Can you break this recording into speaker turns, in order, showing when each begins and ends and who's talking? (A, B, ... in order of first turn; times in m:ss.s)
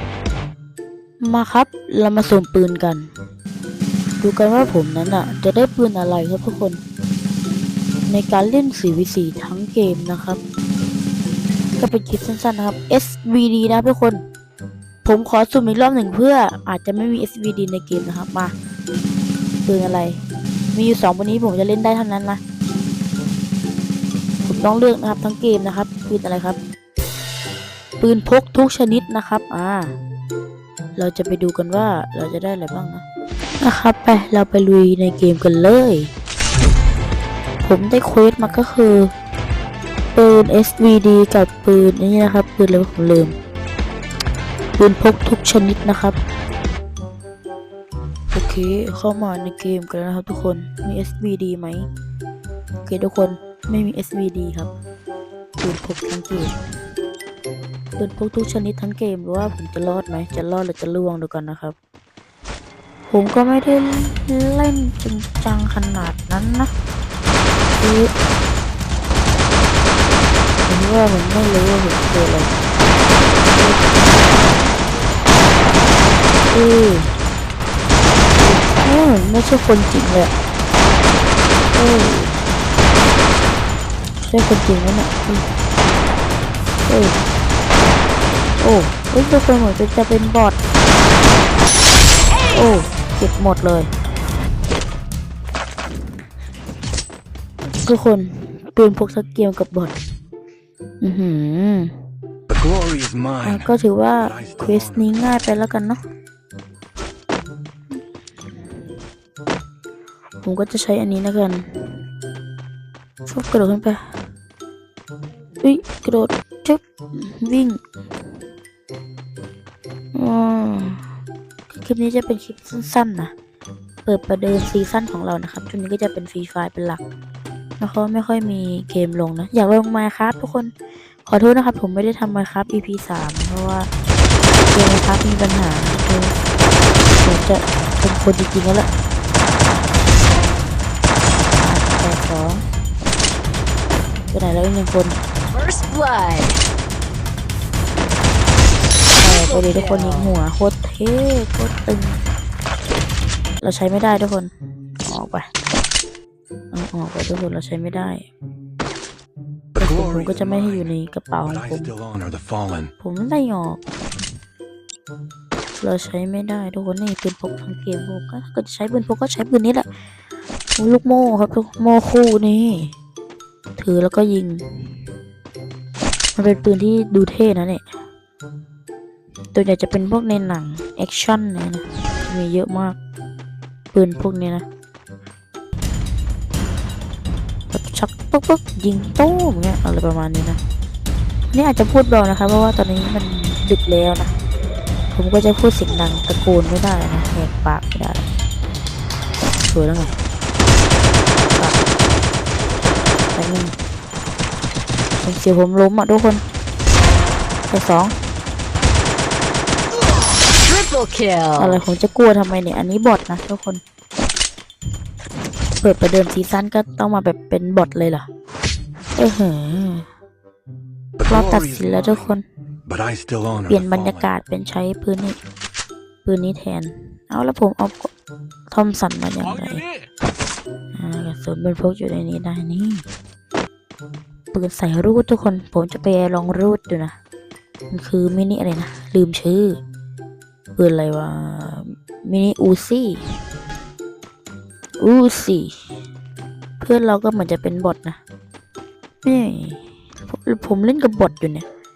0:01.2-0:03.1 A
0:04.2-0:06.8 A
0:08.1-0:10.4 A
0:11.8-0:14.2 A
0:15.0-0:18.5 A
0:19.7-0:20.2 A
0:20.7-0:22.4 A
0:24.4-0:26.6 A
0:28.0-0:30.0 A
0:31.0-0:33.0 A
0:33.6-0:36.1 A
0:37.6-0:39.1 A
0:40.2-0:43.4 A
0:44.8-0:46.2 A
0:48.3-0:51.9 A
0:52.8-0:54.7 A
0:55.6-0:56.6 A
0:58.0-1:01.8 A
1:03.1-1:06.7 A
1:07.8-1:08.1 A
1:10.7-1:12.5 A
1:13.5-1:14.0 A
1:16.5-1:17.2 A
1:18.4-1:20.3 A
1:21.7-1:22.4 A
1:24.2-1:25.5 A
1:26.9-1:27.2 A
1:28.6-1:30.6 A
1:32.5-1:33.9 A
1:37.8-1:40.0 A
1:41.0-1:41.9 A
1:42.5-1:43.7 B
1:43.4-1:46.0 A
1:44.2-1:44.9 B
1:50.4-1:52.0 A
1:53.2-1:54.1 A
1:55.6-1:57.8 A
2:00.1-2:01.0 A
2:01.7-2:03.3 A
2:04.0-2:07.0 A
2:07.8-2:10.7 A
2:11.2-2:13.9 A
2:14.6-2:16.3 A
2:17.2-2:18.9 A
2:21.6-2:22.6 A
2:24.3-2:25.2 A
2:25.5-2:26.6 C
2:29.2-2:32.2 A
2:29.2-2:30.4 C
2:33.6-2:35.5 A
2:36.7-2:38.3 A
2:39.8-2:40.9 B
2:39.8-2:41.9 A
2:41.5-2:42.9 B
2:43.0-2:43.8 A
2:45.8-2:49.9 A
2:50.8-2:52.9 A
2:53.8-2:55.0 A
2:56.4-2:57.8 A
2:59.5-3:03.0 A
3:03.9-3:04.7 A
3:07.7-3:10.6 A
3:11.5-3:14.3 A
3:15.1-3:18.2 A
3:19.6-3:20.2 A
3:21.5-3:21.8 A
3:23.3-3:23.7 A
3:25.2-3:26.4 A
3:27.7-3:28.2 A
3:30.6-3:31.8 C
3:31.6-3:33.8 A
3:35.8-3:38.3 A
3:39.2-3:40.1 A
3:41.2-3:42.1 B
3:41.2-3:42.4 A
3:42.9-3:44.2 B
3:43.7-3:45.4 A
3:46.2-3:48.1 A
3:48.7-3:49.9 A
3:51.0-3:53.0 A
3:54.5-3:57.2 A
3:57.9-3:59.8 A
4:00.8-4:03.3 A
4:05.0-4:05.8 A
4:06.8-4:08.2 A
4:09.2-4:11.6 A